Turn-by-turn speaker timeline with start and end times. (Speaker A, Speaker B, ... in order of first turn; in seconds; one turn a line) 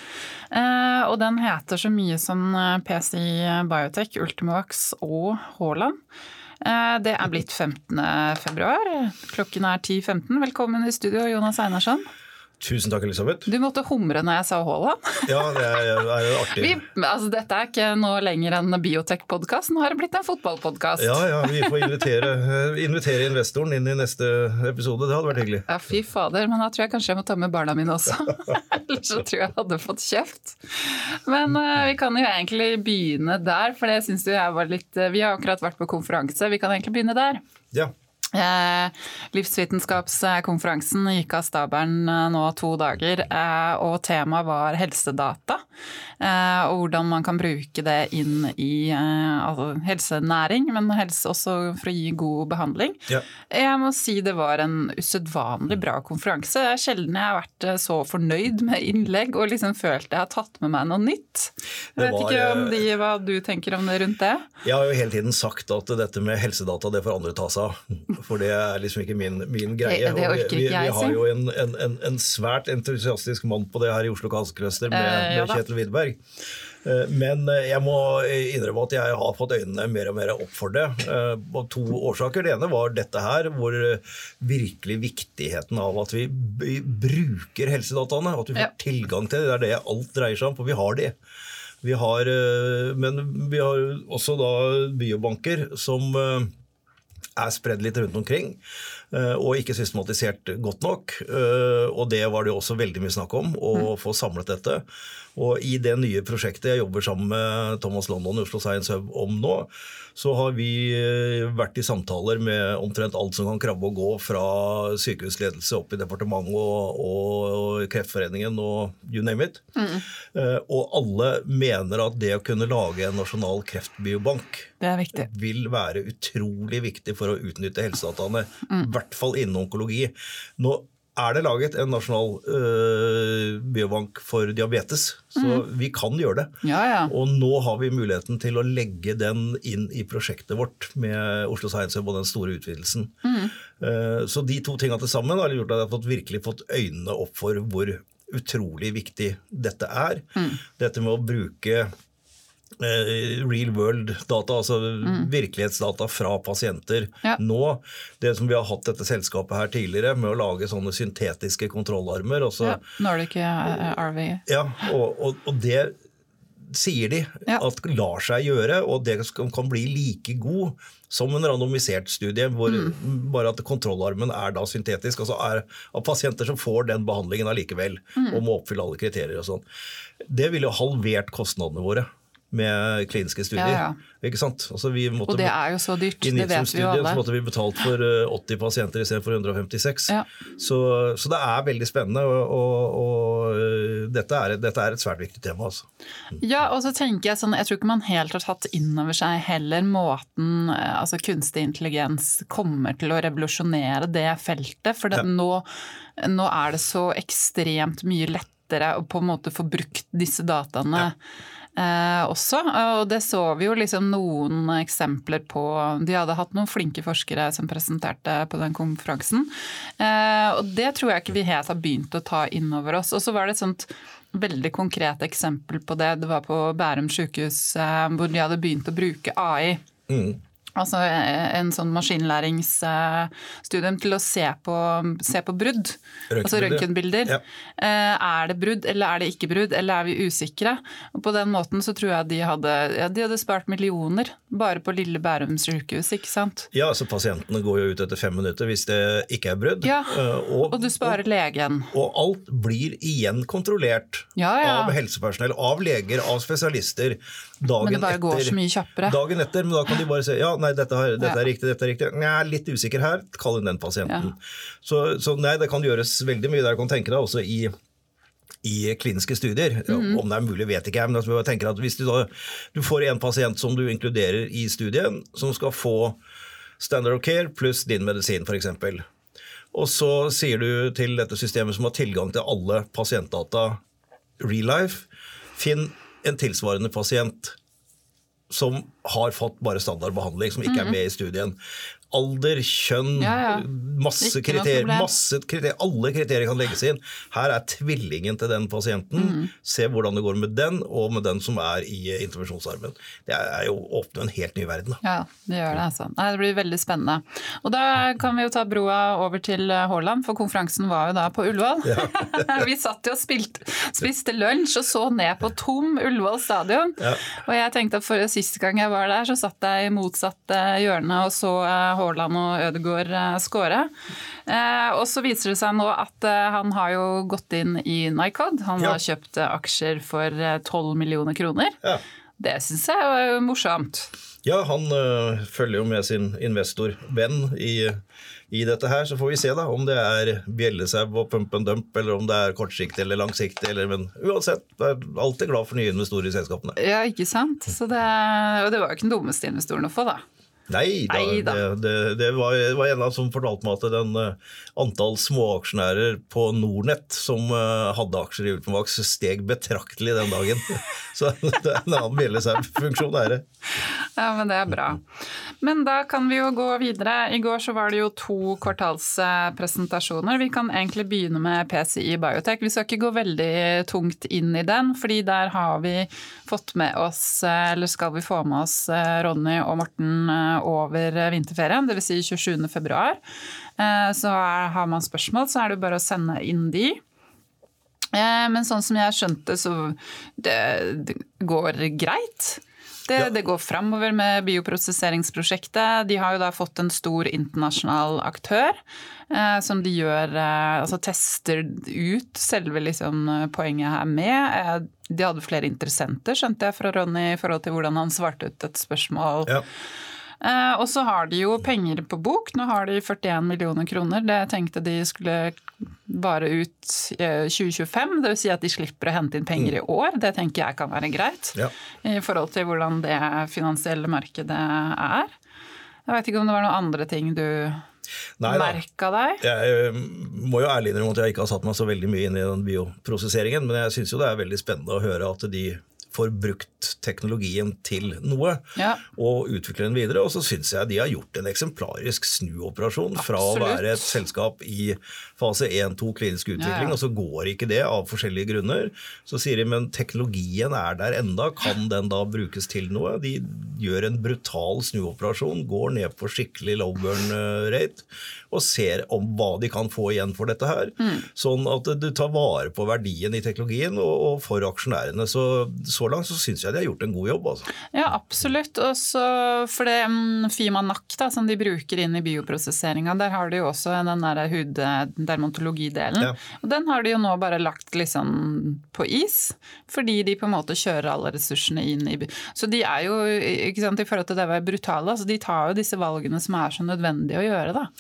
Speaker A: 0.5-6.0
Speaker A: 6.6-12.1
Speaker B: 12.6-13.5
Speaker A: 13.5-21.9
Speaker B: 15.3-16.8
Speaker B: 21.0-25.7
Speaker A: 25.7-37.4
Speaker A: 38.3-45.6
Speaker A: 46.2-64.5
Speaker B: 62.0-62.8
Speaker B: 64.6-76.2
Speaker A: 69.8-71.2
Speaker A: 74.9-75.6
Speaker B: 76.8-91.2
Speaker B: 91.8-96.5
Speaker B: 97.4-98.6
Speaker B: 99.1-104.8
Speaker B: 105.4-119.6
Speaker A: 119.8-120.0
Speaker B: 120.3-136.5
Speaker A: 124.8-125.3
Speaker A: 135.4-135.6
Speaker A: 136.6-137.1
Speaker B: 137.1-143.1
Speaker A: 143.2-143.6
Speaker B: 143.8-150.2
Speaker A: 150.4-150.6
Speaker B: 150.8-151.9
Speaker B: 152.8-162.8
Speaker A: 155.0-155.3
Speaker A: 162.6-164.4
Speaker B: 164.5-165.9
Speaker B: 166.6-179.6
Speaker A: 172.7-172.9
Speaker A: 178.2-178.4
Speaker B: 180.2-185.5
Speaker A: 183.6-184.0
Speaker A: 185.3-187.2
Speaker B: 186.2-195.8
Speaker A: 196.4-211.2
Speaker A: 211.8-229.8
Speaker B: 230.1-230.4
Speaker A: 230.8-246.7
Speaker B: 236.3-237.4
Speaker B: 246.7-251.2
Speaker A: 249.8-251.9
Speaker B: 251.9-267.7
Speaker A: 254.4-255.0
Speaker A: 257.8-259.2
Speaker A: 264.1-264.3
Speaker B: 268.6-276.2
Speaker A: 269.9-270.2
Speaker B: 276.8-279.1
Speaker B: 279.7-283.8
Speaker B: 284.4-287.6
Speaker B: 288.5-291.6
Speaker A: 290.7-291.0
Speaker B: 292.1-305.0
Speaker A: 293.2-293.7
Speaker A: 294.2-295.1
Speaker A: 299.2-299.5
Speaker A: 305.0-323.9
Speaker B: 311.9-312.4
Speaker A: 324.5-331.8
Speaker A: 332.4-334.1
Speaker B: 334.4-338.0
Speaker B: 338.5-346.8
Speaker A: 346.8-350.2
Speaker B: 350.7-363.4
Speaker A: 351.1-351.6
Speaker A: 363.8-365.1
Speaker A: 365.6-383.2
Speaker A: 383.8-387.0
Speaker A: 388.1-409.6
Speaker A: 410.4-425.3
Speaker A: 426.1-427.8
Speaker B: 428.4-428.8
Speaker A: 428.4-429.4
Speaker B: 429.4-467.7
Speaker A: 438.8-439.0
Speaker A: 443.2-444.1
Speaker A: 446.6-447.0
Speaker A: 461.0-461.3
Speaker A: 467.9-487.9